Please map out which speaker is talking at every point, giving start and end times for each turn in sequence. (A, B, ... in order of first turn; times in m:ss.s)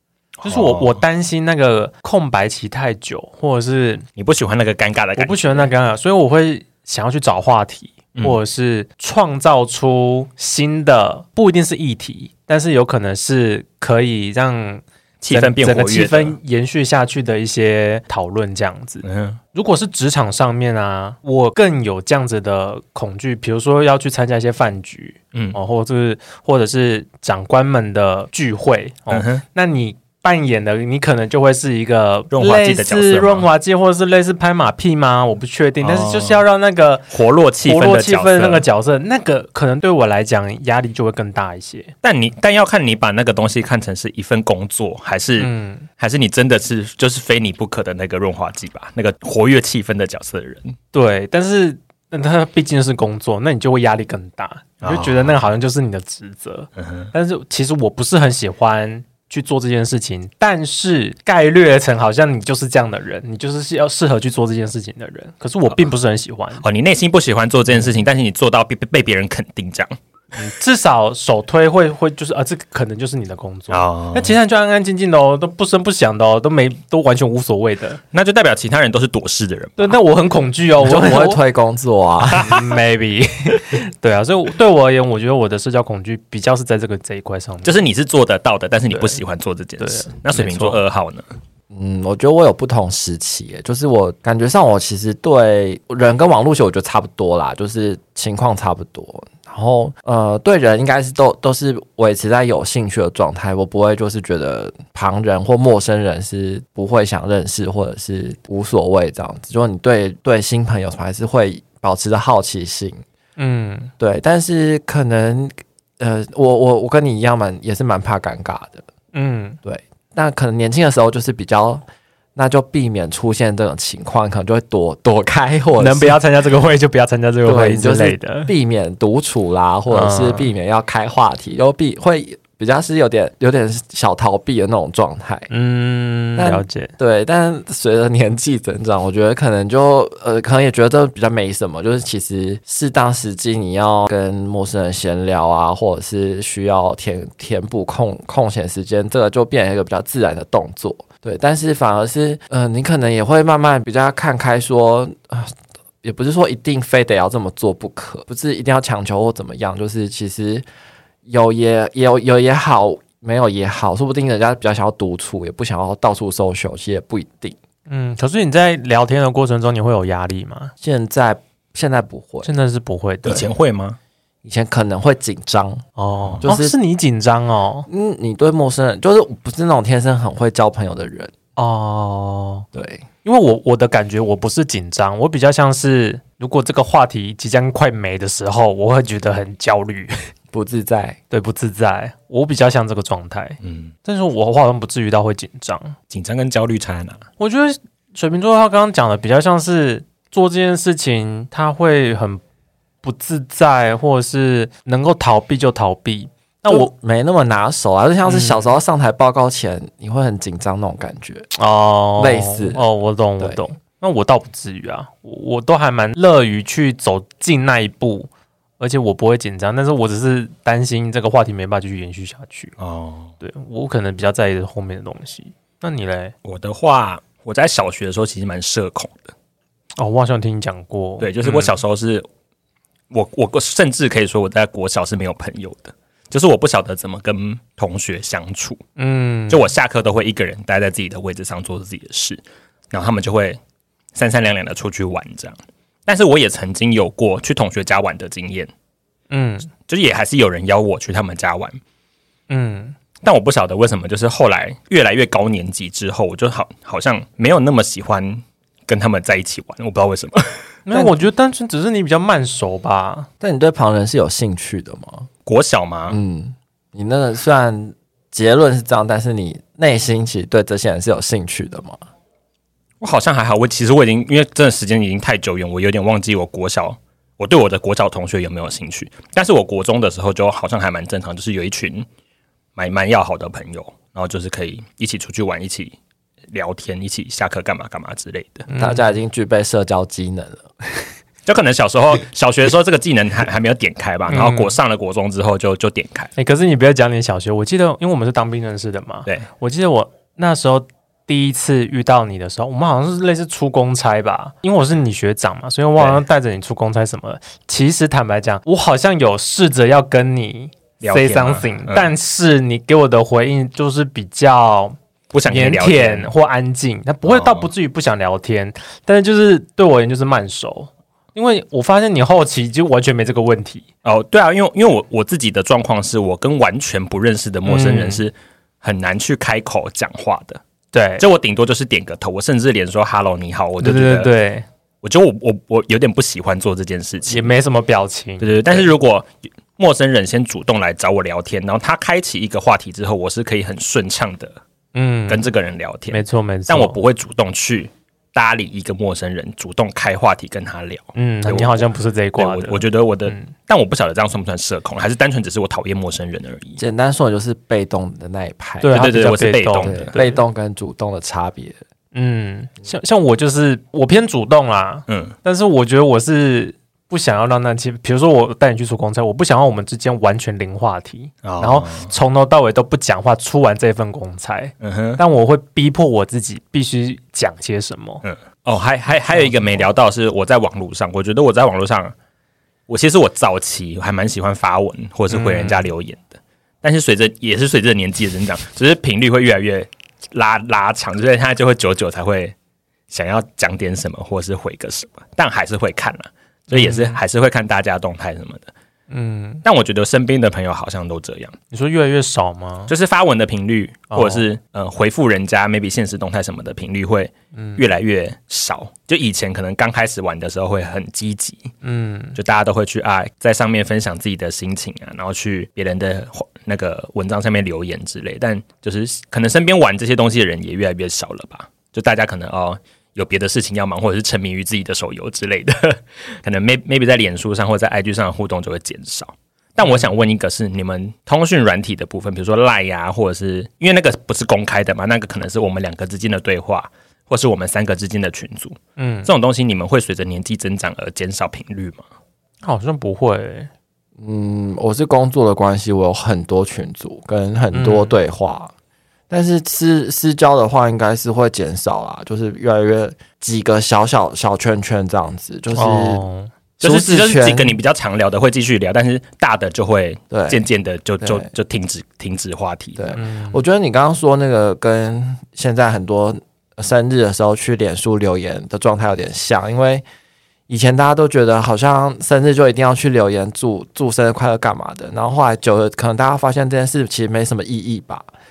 0:00.4-0:01.0 A
0:00.4-0:04.1 B
0:04.2-0:05.7 A
0:05.2-0:37.1 B
0:15.2-0:16.4 A
0:19.0-0:19.4 A
0:29.1-0:29.4 A
0:32.3-0:33.5 A
0:35.8-0:36.4 A
0:37.1-0:38.6 A
0:37.6-0:41.9 B
0:42.0-0:50.8 A
0:45.4-0:45.9 B
0:50.9-1:06.6 B
0:54.8-0:55.3 A
0:56.8-0:57.1 A
1:06.6-1:10.0 A
1:10.4-1:18.0 B
1:13.7-1:14.4 A
1:18.1-1:20.0 A
1:19.8-1:21.4 B
1:20.8-1:22.6 C
1:22.4-1:27.8 B
1:27.6-1:31.3 A
1:28.9-1:29.2 B
1:29.8-1:30.8 B
1:31.7-1:53.0 C
1:53.4-1:53.9 B
1:54.0-1:58.9 C
1:59.1-1:59.6 B
1:59.6-2:01.8 C
2:02.4-2:06.2 C
2:05.8-2:08.5 B
2:07.4-2:15.5 C
2:09.9-2:10.5 B
2:15.5-2:16.9 B
2:16.4-2:40.6 C
2:41.3-2:47.6 C
2:47.9-2:50.7 B
2:50.8-2:52.5 C
2:52.4-2:53.4 B
2:53.2-2:54.0 A
2:54.4-2:55.8 C
2:56.0-2:57.9 B
2:56.4-2:56.8 C
2:57.9-3:01.3 C
3:01.6-3:02.7 B
3:02.7-3:03.1 C
3:03.2-3:10.1 B
3:10.5-3:11.2 C
3:11.3-3:16.0 B
3:13.6-3:13.9 A
3:16.1-3:17.2 A
3:17.4-3:22.4 B
3:23.0-3:26.9 B
3:26.7-3:31.5 C
3:28.3-3:28.8 B
3:31.6-3:42.8 B
3:32.2-3:32.8 C
3:42.8-3:43.3 A
3:43.4-3:46.3 B
3:46.4-3:49.3 A
3:50.0-3:51.8 B
3:51.2-3:52.3 A
3:53.1-3:58.8 A
3:59.0-3:59.7 B
3:59.5-4:03.6 A
4:04.2-4:08.7 A
4:09.3-4:09.7 B
4:09.9-4:11.8 A
4:12.5-4:13.0 B
4:13.2-4:20.6 A
4:20.9-4:23.3 B
4:20.9-4:21.2 C
4:23.4-4:25.3 C
4:25.5-4:26.2 A
4:26.1-4:32.0 C
4:33.0-4:42.1 A
4:42.8-4:46.0 A
4:46.5-4:48.7 A
4:48.7-4:49.0 B
4:48.8-4:51.1 C
4:51.5-4:56.3 A
4:54.3-4:54.8 B
4:56.4-5:15.0 B
5:06.0-5:06.2 A
5:11.0-5:12.1 A
5:15.3-5:16.3 A
5:15.5-5:23.8 B
5:17.2-5:17.7 A
5:24.0-5:30.6 A
5:27.6-5:28.2 B
5:30.9-5:31.2 B
5:31.2-5:34.3 A
5:33.8-5:34.7 B
5:35.0-5:37.5 A
5:37.3-5:38.9 B
5:38.4-5:44.6 A
5:44.9-5:45.5 B
5:45.3-5:56.8 A
5:46.1-5:47.0 B
5:51.2-5:53.5 B
5:56.8-5:59.1 C
5:58.8-6:00.4 B
5:58.9-6:00.1 A
5:59.8-6:01.8 C
6:02.1-6:18.2 B
6:05.1-6:05.4 A
6:11.4-6:12.1 A
6:14.8-6:15.2 A
6:18.2-6:22.1 A
6:19.3-6:19.8 B
6:22.9-6:32.6 A
6:25.3-6:25.9 B
6:33.1-6:38.7 A
6:36.7-6:37.2 B
6:39.1-6:39.6 B
6:39.6-6:41.6 A
6:41.7-6:42.9 B
6:42.9-6:51.7 A
6:44.1-6:44.4 B
6:47.5-6:47.8 B
6:51.8-6:52.4 B
6:52.4-7:22.0 A
7:09.8-7:10.1 B
7:19.0-7:19.3 B
7:22.6-7:23.7 B
7:24.2-7:28.7 C
7:27.7-7:28.2 B
7:29.3-7:36.2 C
7:35.8-7:36.5 B
7:36.8-7:37.8 C
7:36.8-7:43.0 A
7:40.3-7:40.6 C
7:41.2-7:41.5 C
7:43.0-7:50.0 C
7:43.2-7:43.6 B
7:50.7-7:58.3 C